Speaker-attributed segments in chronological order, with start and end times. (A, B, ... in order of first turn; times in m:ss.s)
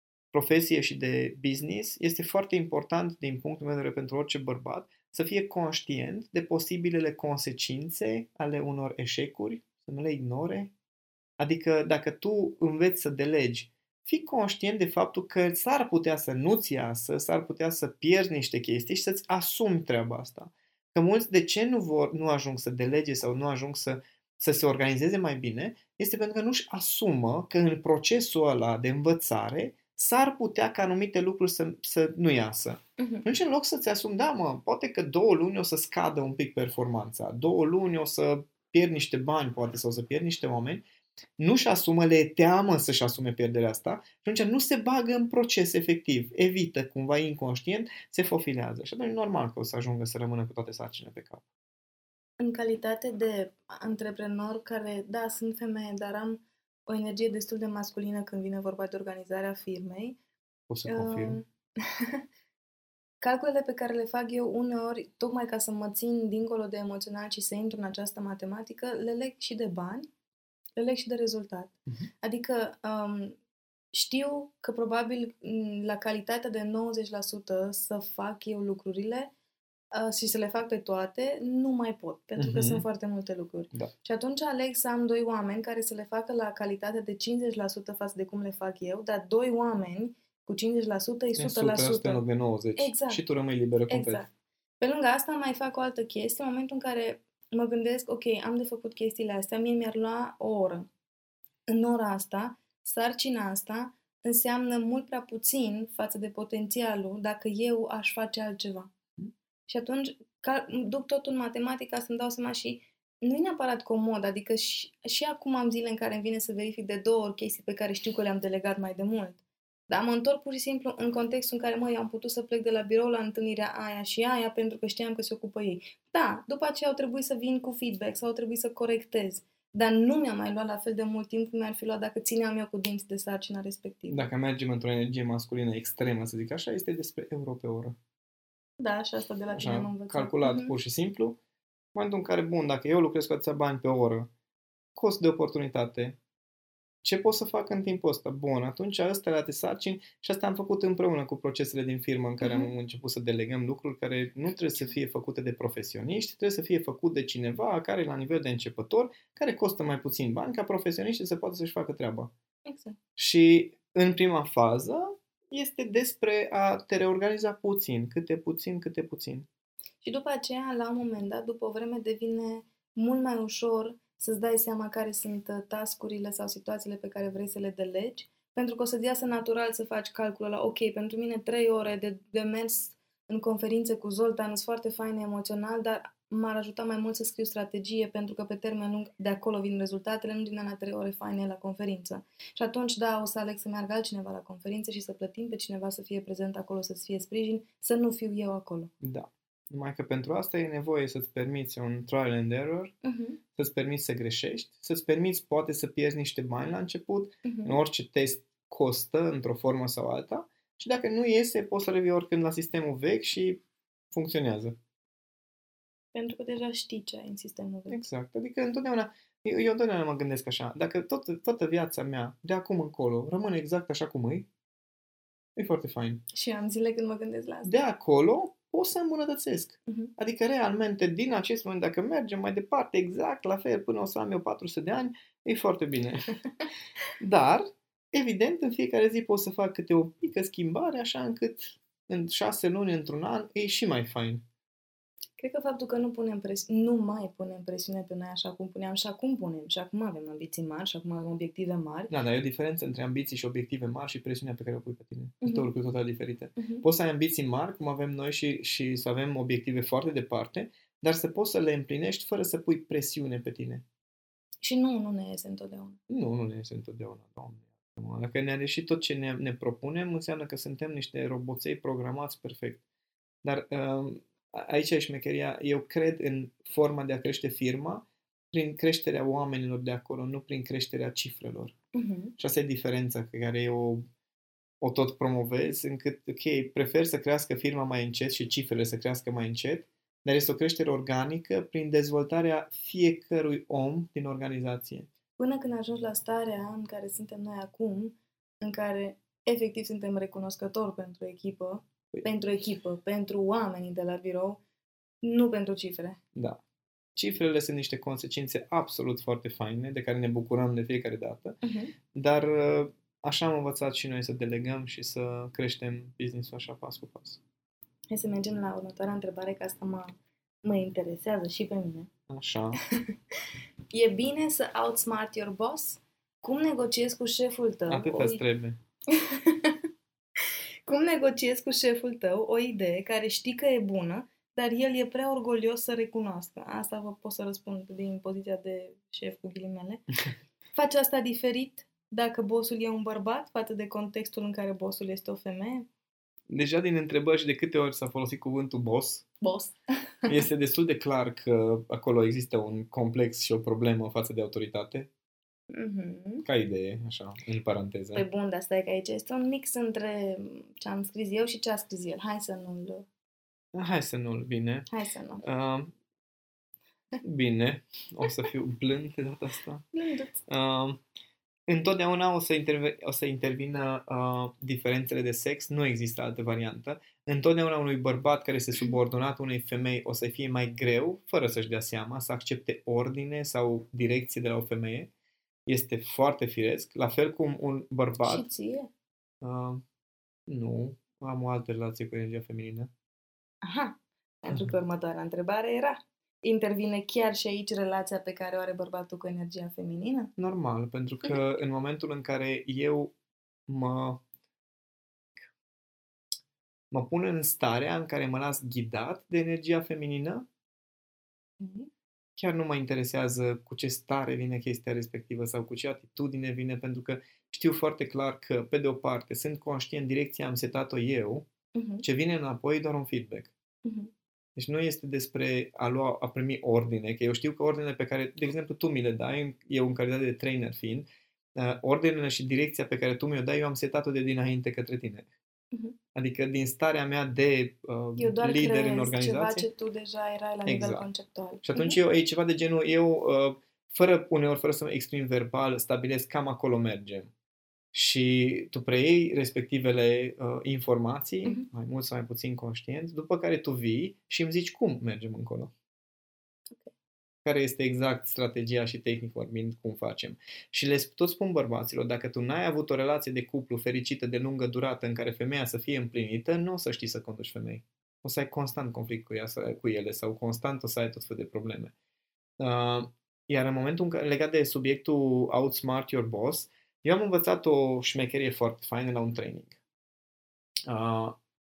0:00.3-0:10.7 A
0:11.4-0:40.8 A
0:33.0-0:33.2 B
0:41.4-0:51.4 A
0:52.4-1:00.2 B
1:00.7-1:01.4 A
1:00.9-1:02.2 B
1:03.2-1:10.1 B
1:10.8-1:13.4 B
1:13.9-1:19.3 B
1:19.9-1:32.2 B
1:22.4-1:22.8 A
1:31.4-1:34.2 A
1:32.8-1:33.2 B
1:33.9-1:40.9 B
1:41.7-1:48.9 B
1:49.7-2:14.3 B
2:14.1-2:18.0 A
2:18.8-2:20.7 B
2:19.5-2:21.4 A
2:21.9-2:24.3 A
2:25.0-2:26.2 A
2:27.0-2:42.3 A
2:32.4-2:32.7 B
2:42.6-2:43.0 B
2:43.2-2:49.5 A
2:50.0-3:18.9 B
3:19.0-3:22.9 A
3:23.0-3:23.4 B
3:23.5-3:34.8 A
3:27.4-3:27.8 B
3:36.1-3:38.0 B
3:37.9-3:44.5 A
3:45.6-3:46.2 A
3:46.3-3:47.8 B
3:47.6-3:56.4 A
3:57.2-4:04.4 A
4:05.4-4:12.1 B
4:12.1-4:23.8 A
4:15.4-4:15.7 B
4:16.6-4:16.8 B
4:24.6-4:26.0 B
4:26.1-4:32.8 A
4:33.4-4:41.7 A
4:41.9-4:42.3 B
4:42.4-4:44.0 A
4:44.8-4:55.1 A
4:55.4-5:04.6 B
5:05.2-5:06.2 B
5:06.3-5:06.6 A
5:07.2-5:11.6 A
5:11.6-5:11.9 B
5:12.1-5:17.4 A
5:18.1-5:22.1 B
5:22.3-5:22.8 A
5:23.9-5:28.4 B
5:27.9-5:28.8 A
5:29.1-5:29.8 B
5:30.8-5:40.0 B
5:40.7-5:45.9 B
5:46.5-5:49.3 A
5:49.4-5:50.4 B
5:50.3-5:55.1 A
5:55.7-5:56.4 B
5:56.4-5:58.2 A
5:58.1-6:03.1 B
6:03.7-6:04.9 A
6:04.9-6:05.4 B
6:05.4-6:05.9 A
6:07.2-6:09.9 A
6:09.9-6:10.4 B
6:10.5-6:11.0 A
6:11.7-6:25.1 A
6:25.7-6:28.5 A
6:28.2-6:28.9 B
6:29.4-6:29.8 A
6:30.5-6:32.9 A
6:33.6-6:40.3 B
6:40.4-6:43.1 A
6:43.7-6:44.2 A
6:46.9-6:50.4 A
6:51.6-6:51.9 B
6:52.4-7:01.5 A
7:01.7-7:02.0 B
7:02.0-7:03.5 A
7:03.8-7:04.1 B
7:04.6-7:15.3 A
7:16.1-7:19.7 A
7:18.2-7:22.0 B
7:20.6-7:21.1 A
7:21.6-7:27.3 A
7:27.9-7:35.7 A
7:37.4-7:51.9 A
7:52.6-7:59.8 A
8:00.9-8:01.4 A